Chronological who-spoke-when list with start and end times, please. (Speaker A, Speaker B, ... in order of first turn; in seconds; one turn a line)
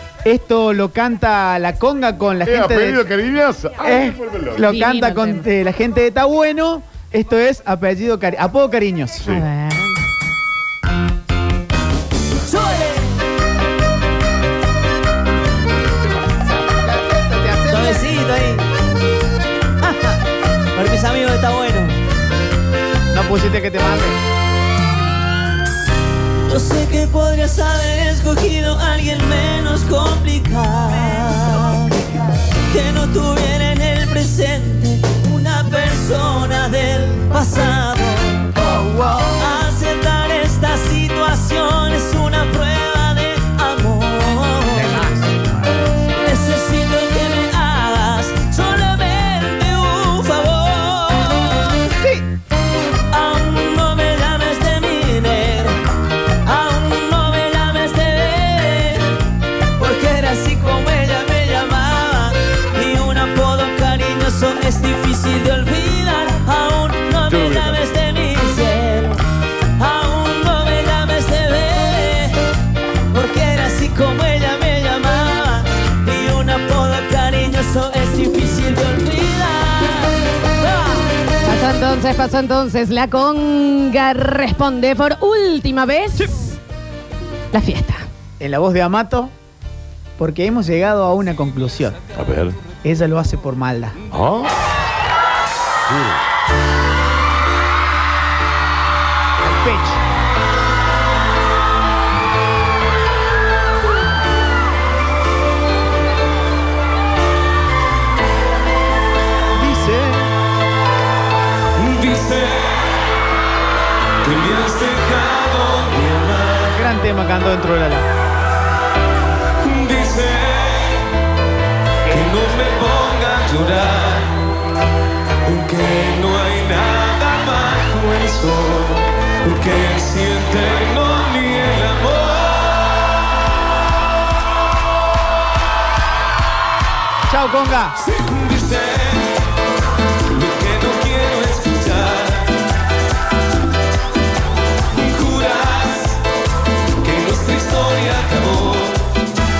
Speaker A: 0.2-3.0
Speaker B: 2.4-4.7
Speaker A: 3.8-9.3
Speaker C: 4.6-5.5
Speaker C: 9.2-10.0
Speaker D: 12.4-13.1
Speaker A: 16.6-18.1
Speaker D: 17.7-18.6
Speaker D: 19.8-20.2
Speaker D: 20.7-22.0
Speaker A: 23.1-24.2
Speaker D: 26.4-32.0
Speaker D: 32.7-38.6
Speaker A: 38.6-39.3
Speaker D: 39.3-45.1
Speaker A: 44.7-45.7
Speaker D: 46.1-51.8
Speaker A: 51.9-52.2
Speaker D: 53.1-55.8
Speaker D: 56.4-59.1
Speaker D: 59.8-69.2
Speaker B: 67.3-67.8
Speaker D: 69.8-72.3
Speaker D: 73.1-80.1
Speaker C: 81.4-86.5
Speaker C: 87.5-88.0
Speaker A: 88.4-89.3
Speaker A: 90.2-92.0
Speaker B: 92.1-92.6
Speaker A: 92.8-94.0
Speaker B: 94.1-94.5
Speaker B: 95.9-96.2
Speaker A: 99.4-100.0
Speaker A: 109.5-110.3
Speaker E: 111.8-113.0
Speaker E: 114.2-116.7
Speaker A: 116.7-118.0
Speaker E: 119.6-121.0
Speaker E: 122.0-124.3
Speaker E: 125.4-132.9
Speaker A: 137.3-137.9
Speaker E: 138.0-139.4
Speaker E: 140.3-142.5
Speaker E: 144.9-146.2
Speaker E: 147.0-149.0